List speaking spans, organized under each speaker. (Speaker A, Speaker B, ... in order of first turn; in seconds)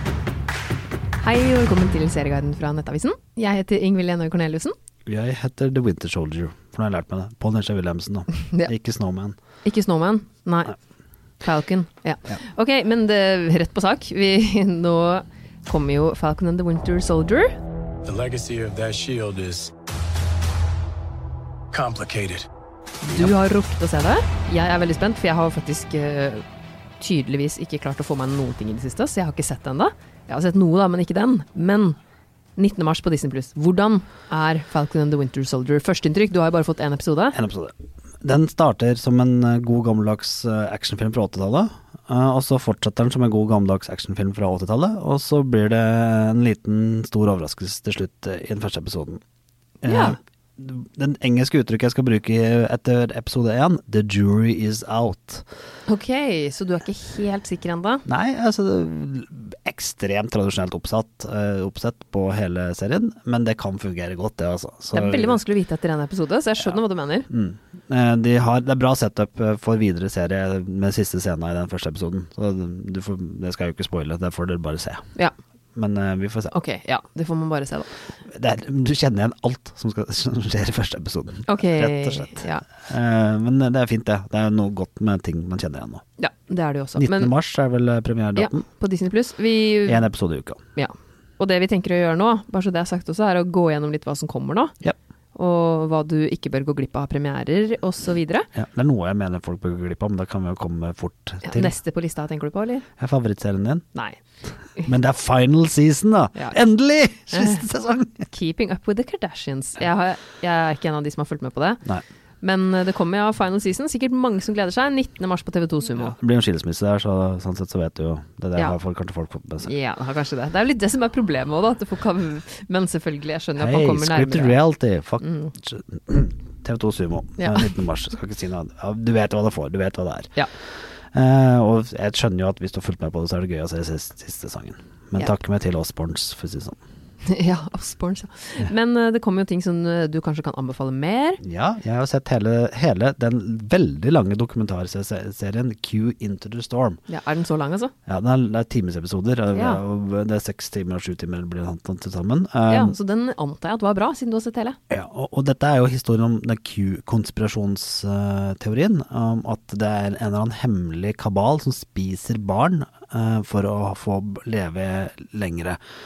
Speaker A: 1.2-4.7, 9.6-10.8, 11.4-17.5, 23.1-26.4, 27.0-32.0, 32.6-37.4, 49.8-50.2, 55.9-58.0, 64.9-67.3, 76.5-77.9, 81.5-82.7, 86.2-87.3, 88.3-90.0, 90.8-94.7, 95.3-98.5, 101.4-102.9, 107.3-107.6, 108.3-111.8, 112.4-116.1, 119.6-124.6, 125.2-125.5, 127.4-127.7, 137.2-141.4, 147.1-147.9, 149.5-149.8, 152.7-154.8
Speaker B: 5.0-9.4, 37.3-49.2, 49.8-55.4, 58.0-65.4, 67.3-75.0, 75.7-76.5, 78.3-86.0, 87.0-88.6, 89.8-90.6, 98.5-101.8, 103.0-103.8, 104.8-108.3, 116.0-119.7, 123.6-136.8, 141.4-147.0, 148.1-152.9, 154.9-165.8
Speaker C: 18.0-19.7, 21.7-22.5